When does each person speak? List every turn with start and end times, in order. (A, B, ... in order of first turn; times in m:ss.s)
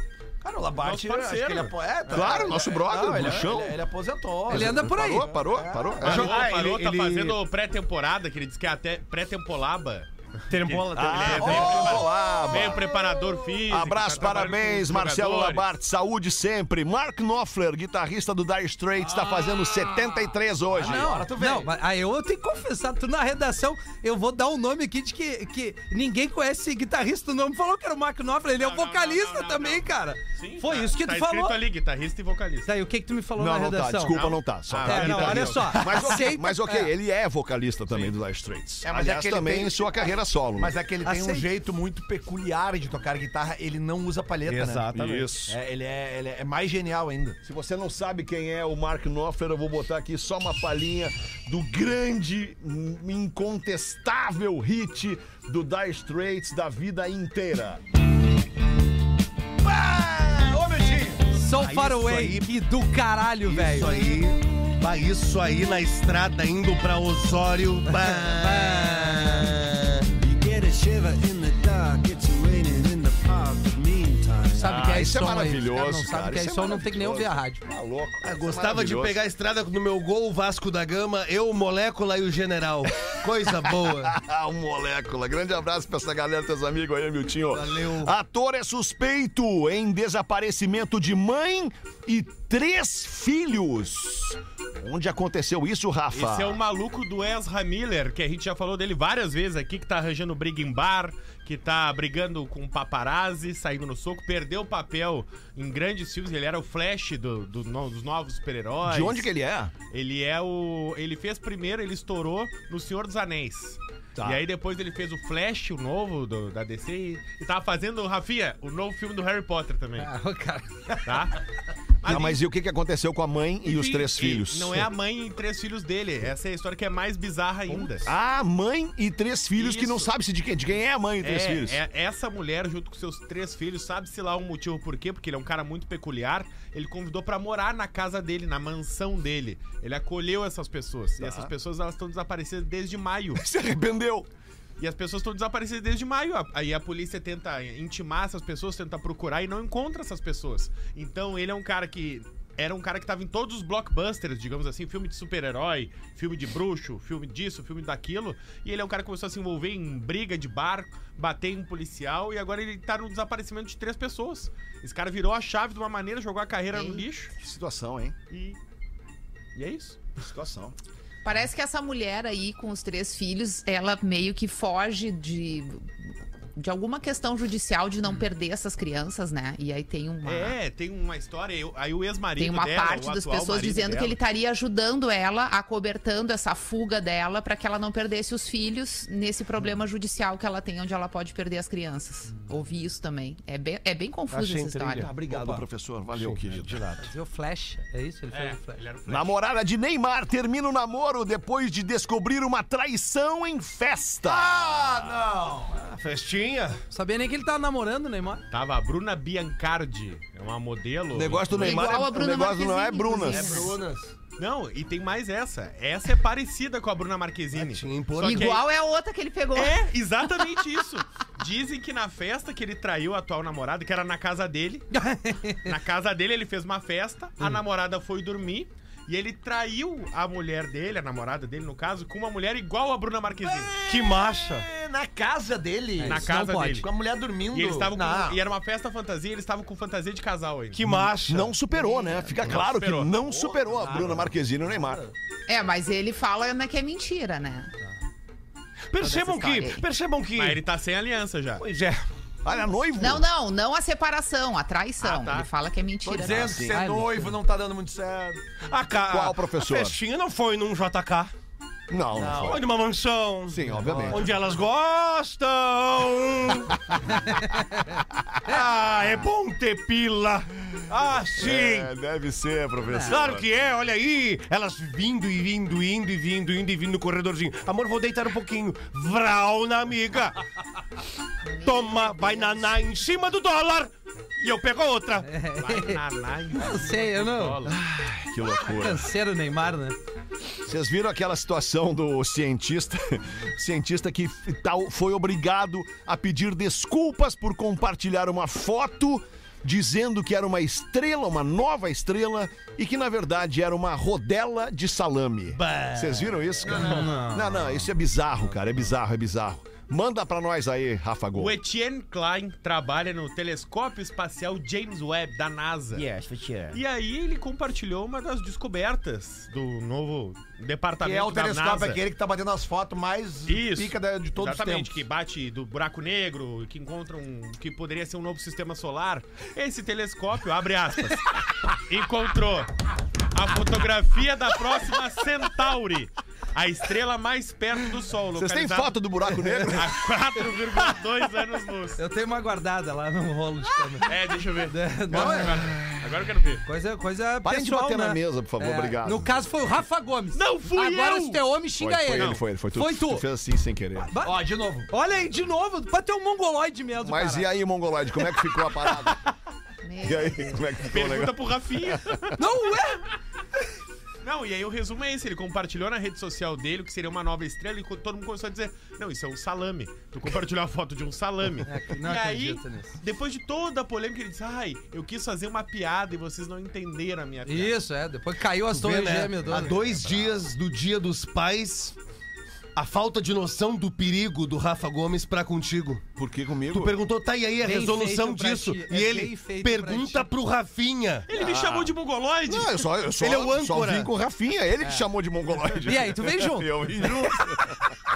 0:00.4-0:06.5 A
0:00.8-0:01.6 B
0:00.8-0:02.4 C
0:02.1-0:03.8 D
0:04.5-0:05.2 E
0:04.5-0:06.3 D
0:06.0-0:15.7 C
0:06.1-0:07.4 B
0:10.5-0:11.9 B
0:10.9-0:12.9 D
0:11.1-0:13.4 A
0:13.7-0:21.2 D
0:19.4-0:19.7 A
0:20.8-0:21.7 A
0:20.8-0:31.6 E
0:28.6-0:32.7 C
0:32.7-0:34.2 E
0:33.4-0:40.7 D
0:34.1-0:35.8 C
0:34.8-0:36.9 E
0:38.8-0:39.8 A
0:40.6-0:44.9 A
0:41.0-0:41.5 E
0:44.4-0:45.3 B
0:44.9-0:45.6 D
0:45.5-0:47.4 A
0:47.4-0:57.8 D
0:59.6-1:01.4 A
1:01.3-1:03.9 E
1:01.6-1:02.5 B
1:03.5-1:14.7 B
1:08.0-1:09.5 E
1:14.5-1:17.6 E
1:14.6-1:19.2 D
1:18.2-1:24.2 B
1:23.1-1:36.6 D
1:27.5-1:28.1 B
1:36.1-1:49.3 C
1:48.8-1:49.7 D
1:49.9-2:00.1 C
1:54.2-1:54.4 D
2:00.0-2:01.0 E
2:01.0-2:01.4 C
2:02.0-2:02.4 C
2:02.0-2:04.9 D
2:03.6-2:08.1 C
2:08.0-2:11.8 D
2:09.6-2:10.1 C
2:11.2-2:23.4 C
2:21.2-2:21.5 D
2:23.3-2:24.3 D
2:24.8-2:47.3 C
2:46.7-2:47.0 F
2:47.4-2:48.2 D
2:48.3-2:48.6 C
2:49.6-2:50.0 C
2:50.2-2:50.8 D
2:51.2-2:55.8 F
2:56.6-3:00.6 F
3:00.2-3:04.2 C
3:02.4-3:15.1 F
3:14.3-3:15.6 B
3:15.0-3:16.8 D
3:16.2-3:17.0 B
3:17.0-3:18.8 E
3:18.3-3:19.4 C
3:19.1-3:25.2 D
3:24.2-3:25.8 A
3:25.8-3:26.8 B
3:26.9-3:28.4 E
3:28.5-3:32.0 C
3:31.1-3:33.7 D
3:31.5-3:33.8 F
3:33.4-3:34.1 A
3:34.4-3:38.6 C
3:37.6-3:38.6 B
3:38.1-3:38.4 A
3:38.2-3:40.4 F
3:39.5-3:44.9 C
3:44.9-3:45.7 E
3:45.6-3:53.7 C
3:53.4-3:58.4 A
3:53.8-3:54.7 B
3:56.0-3:56.8 E
3:56.0-3:56.9 C
3:57.5-4:00.9 C
4:00.7-4:01.5 B
4:01.3-4:05.0 D
4:01.7-4:02.4 F
4:02.4-4:03.1 C
4:03.3-4:04.3 A
4:05.5-4:07.7 F
4:08.9-4:10.6 B
4:09.0-4:09.8 F
4:10.4-4:11.6 C
4:11.6-4:12.0 B
4:12.4-4:13.3 D
4:13.0-4:16.8 F
4:15.0-4:15.5 C
4:16.0-4:18.4 A
4:16.2-4:16.7 D
4:16.7-4:17.3 E
4:18.7-4:21.3 B
4:19.1-4:20.0 D
4:21.9-4:22.7 D
4:22.2-4:22.6 A
4:22.3-4:26.8 B
4:23.5-4:24.3 D
4:23.8-4:24.2 A
4:28.4-4:31.9 B
4:31.4-4:33.5 D
4:33.1-4:40.4 B
4:41.5-4:42.3 F
4:41.6-4:45.3 B
4:45.2-4:46.0 E
4:45.6-4:47.8 C
4:46.6-4:47.6 E
4:47.7-4:49.1 D
4:48.5-4:50.0 E
4:50.7-5:11.6 D
5:05.5-5:06.5 B
5:06.8-5:07.5 E
5:11.3-5:16.0 C
5:16.2-5:16.7 A
5:16.7-5:22.0 C
5:21.0-5:24.9 A
5:23.5-5:32.7 C
5:33.3-5:39.0 C
5:38.3-5:40.0 D
5:39.7-5:42.0 C
5:42.0-5:44.2 E
5:44.0-5:46.6 C
5:44.7-5:45.5 E
5:45.1-5:46.0 D
5:46.7-5:53.2 E
5:47.4-5:49.3 D
5:50.3-5:51.4 C
5:51.8-5:54.1 D
5:52.1-5:52.4 C
5:54.2-5:54.9 A
5:54.9-5:57.5 E
5:57.0-5:59.2 D
5:59.8-6:00.6 F
6:00.0-6:02.0 D
6:00.9-6:02.4 C
6:02.4-6:03.0 E
6:04.2-6:17.8 C
6:11.6-6:13.0 E
6:17.4-6:19.7 E
6:18.7-6:21.9 B
6:22.8-6:26.0 B
6:26.2-6:26.9 D
6:26.7-6:31.3 B
6:27.6-6:30.3 E
6:31.3-6:32.8 C
6:31.3-6:31.9 D
6:32.4-6:37.8 D
6:33.2-6:34.1 B
6:35.8-6:36.7 E